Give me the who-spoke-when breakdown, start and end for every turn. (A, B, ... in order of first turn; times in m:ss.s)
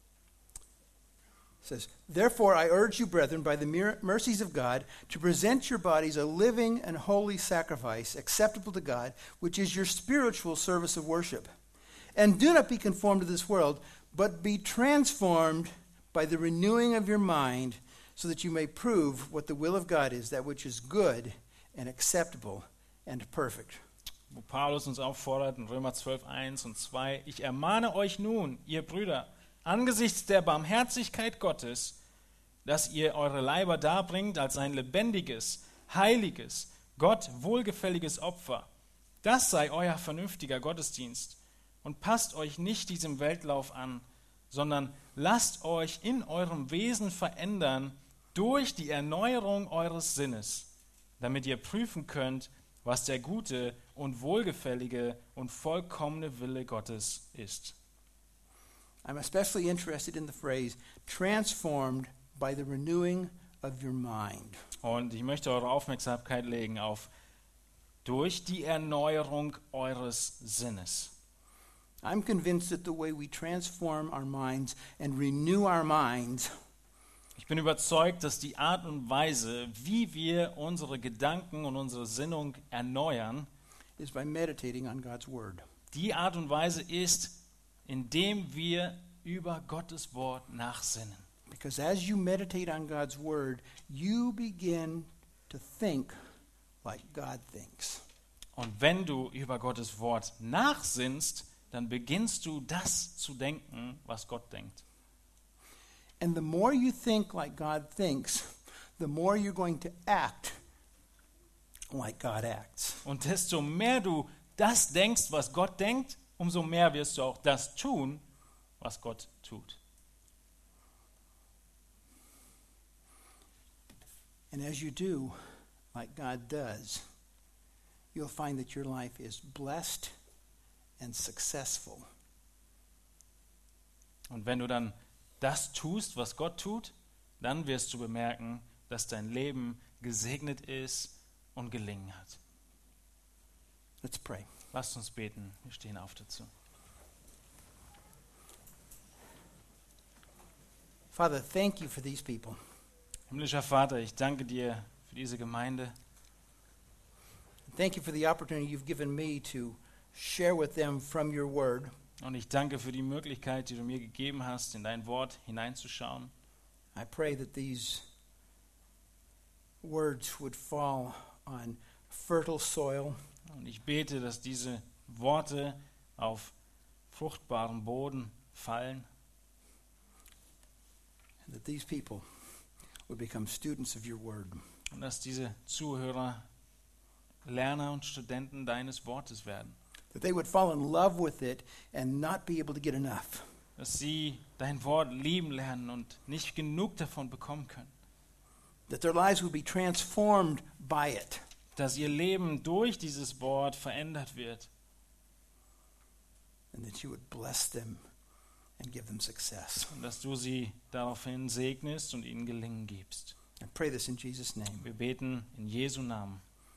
0:01.6-0:11.5 A
0:12.2-0:23.8 A
0:24.3-0:32.0 B
0:32.6-0:38.7 B
0:39.2-0:50.7 B
0:51.2-0:57.8 B
0:59.0-1:04.6 A
1:04.8-1:07.1 B
1:08.0-1:11.1 B
1:12.0-1:16.5 A
1:17.4-1:23.5 B
1:24.0-1:25.6 A
1:25.9-1:31.2 B
1:31.5-1:36.1 A
1:36.8-1:38.0 A
1:38.6-1:44.8 B
1:46.2-1:50.6 A
1:51.9-1:53.0 A
1:53.0-1:58.2 B
1:58.8-1:59.8 B
2:04.5-2:05.4 A
2:05.9-2:07.0 A
2:08.1-2:10.1 A
2:11.0-2:12.1 A
2:14.3-2:22.4 B
2:24.0-2:24.5 A
2:24.7-2:26.5 B
2:31.1-2:32.6 A
2:33.3-2:36.0 B
2:37.7-2:41.9 A
2:42.2-2:46.3 B
2:47.0-2:48.1 A
2:49.8-2:53.2 A
2:53.5-2:56.5 B
2:57.1-2:59.1 B
3:01.4-3:02.2 A
3:03.1-3:04.6 A
3:04.9-3:06.4 B
3:07.4-3:09.8 B
3:10.1-3:13.4 A
3:13.8-3:17.9 B
3:18.9-3:21.4 A
3:21.8-3:24.7 B
3:26.7-3:28.0 A
3:28.8-3:29.9 A
3:29.9-3:33.4 B
3:33.6-3:34.8 A
3:34.8-3:36.4 B